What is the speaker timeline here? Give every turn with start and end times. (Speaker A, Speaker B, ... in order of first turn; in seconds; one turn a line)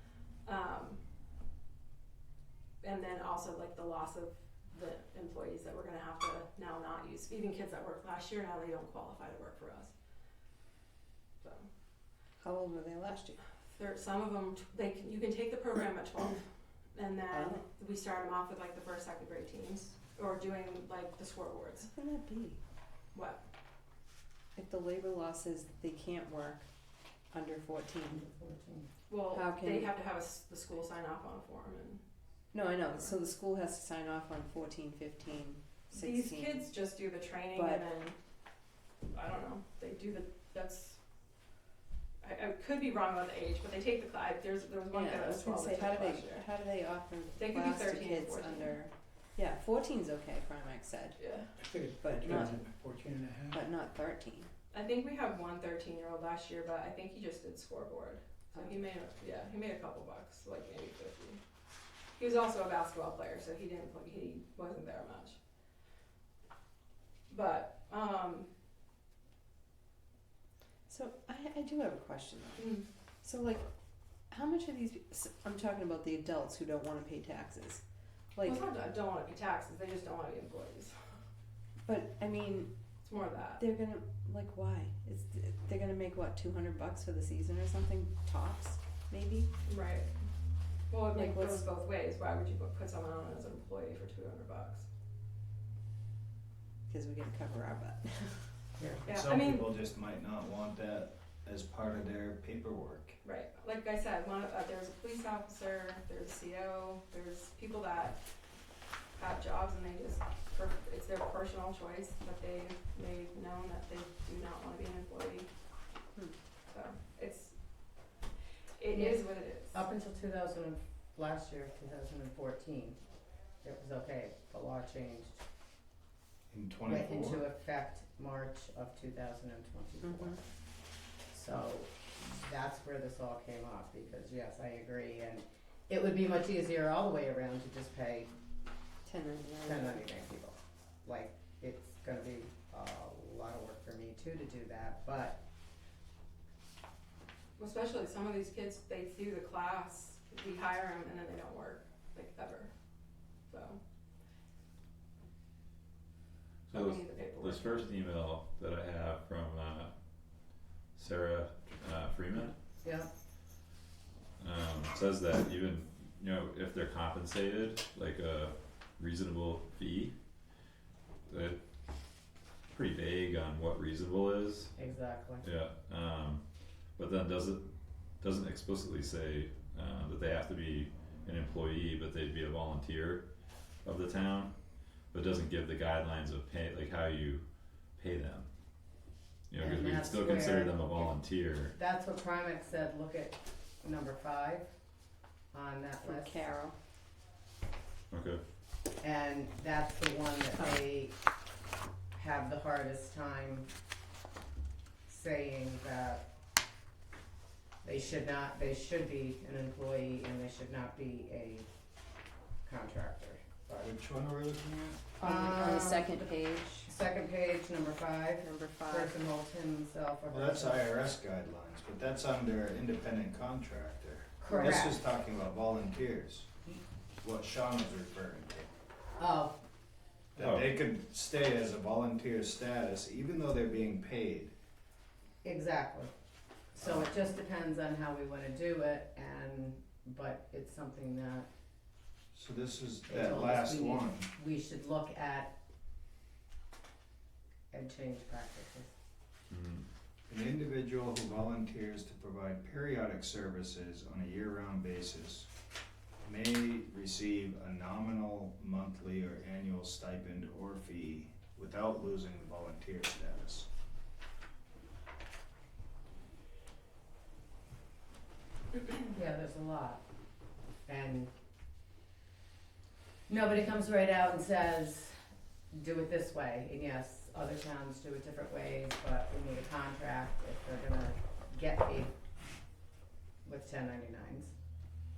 Speaker A: 0.5-1.0
Speaker A: 2.8-9.9
Speaker A: 11.4-11.7
Speaker B: 12.4-13.4
Speaker A: 13.7-21.9
Speaker B: 17.3-17.7
Speaker B: 21.9-22.6
Speaker A: 23.1-23.4
Speaker B: 24.6-26.7
Speaker B: 27.3-28.3
Speaker C: 28.1-28.9
Speaker A: 29.1-32.0
Speaker B: 29.3-29.9
Speaker B: 32.5-36.7
Speaker A: 32.8-33.1
Speaker A: 35.9-38.2
Speaker B: 37.5-37.9
Speaker A: 39.1-41.0
Speaker A: 42.2-46.4
Speaker B: 44.9-51.2
Speaker A: 47.4-48.8
Speaker A: 51.2-51.6
Speaker D: 51.6-53.7
Speaker B: 52.0-52.7
Speaker B: 53.5-54.5
Speaker A: 54.7-61.4
Speaker A: 62.2-65.4
Speaker A: 67.3-68.5
Speaker B: 70.9-73.7
Speaker A: 72.6-72.9
Speaker B: 74.3-77.8
Speaker B: 78.3-78.6
Speaker A: 78.4-81.0
Speaker B: 81.9-82.7
Speaker A: 83.0-83.6
Speaker B: 83.6-89.5
Speaker A: 89.6-90.1
Speaker A: 90.9-94.9
Speaker B: 91.2-91.7
Speaker B: 96.9-98.5
Speaker C: 98.8-99.0
Speaker A: 99.1-99.8
Speaker E: 99.1-103.2
Speaker A: 103.2-108.2
Speaker A: 109.2-115.5
Speaker A: 116.7-117.6
Speaker A: 118.8-119.8
Speaker C: 118.9-123.0
Speaker C: 123.6-125.4
Speaker E: 126.5-127.4
Speaker C: 126.9-130.4
Speaker B: 130.0-130.4
Speaker C: 131.3-138.3
Speaker B: 139.1-140.0
Speaker C: 139.6-145.4
Speaker A: 147.6-152.7
Speaker A: 153.5-153.8
Speaker A: 156.7-157.9
Speaker F: 156.7-159.9
Speaker F: 161.0-162.5
Speaker C: 162.8-163.1
Speaker F: 164.4-170.1
Speaker F: 171.3-171.6
Speaker F: 172.7-174.7
Speaker C: 174.8-175.4
Speaker F: 175.4-176.4
Speaker F: 177.0-177.7
Speaker F: 178.2-183.2
Speaker F: 183.8-184.5
Speaker F: 185.1-187.4
Speaker F: 188.0-188.5
Speaker F: 189.5-191.7
Speaker C: 189.6-191.1
Speaker C: 191.8-194.7
Speaker C: 195.5-196.4
Speaker B: 196.0-196.8
Speaker F: 198.1-198.4
Speaker C: 199.0-201.2
Speaker C: 202.1-203.7
Speaker C: 205.1-206.2
Speaker C: 207.8-211.7
Speaker C: 212.7-213.9
Speaker E: 213.8-214.9
Speaker C: 214.7-216.3
Speaker B: 215.2-216.9
Speaker C: 216.8-220.9
Speaker B: 218.4-219.2
Speaker E: 220.3-226.5
Speaker C: 224.4-225.0
Speaker E: 227.2-228.7
Speaker C: 229.2-229.6
Speaker E: 230.3-234.5
Speaker F: 230.4-230.7
Speaker C: 235.4-236.1
Speaker C: 236.7-241.5
Speaker E: 236.8-237.1
Speaker E: 242.3-244.3
Speaker C: 243.1-245.6
Speaker C: 247.7-248.9
Speaker F: 249.5-249.9
Speaker E: 250.3-255.5
Speaker E: 256.2-263.7
Speaker C: 269.1-270.0
Speaker C: 270.9-271.3
Speaker C: 273.3-275.2
Speaker C: 275.7-282.1
Speaker C: 283.4-284.5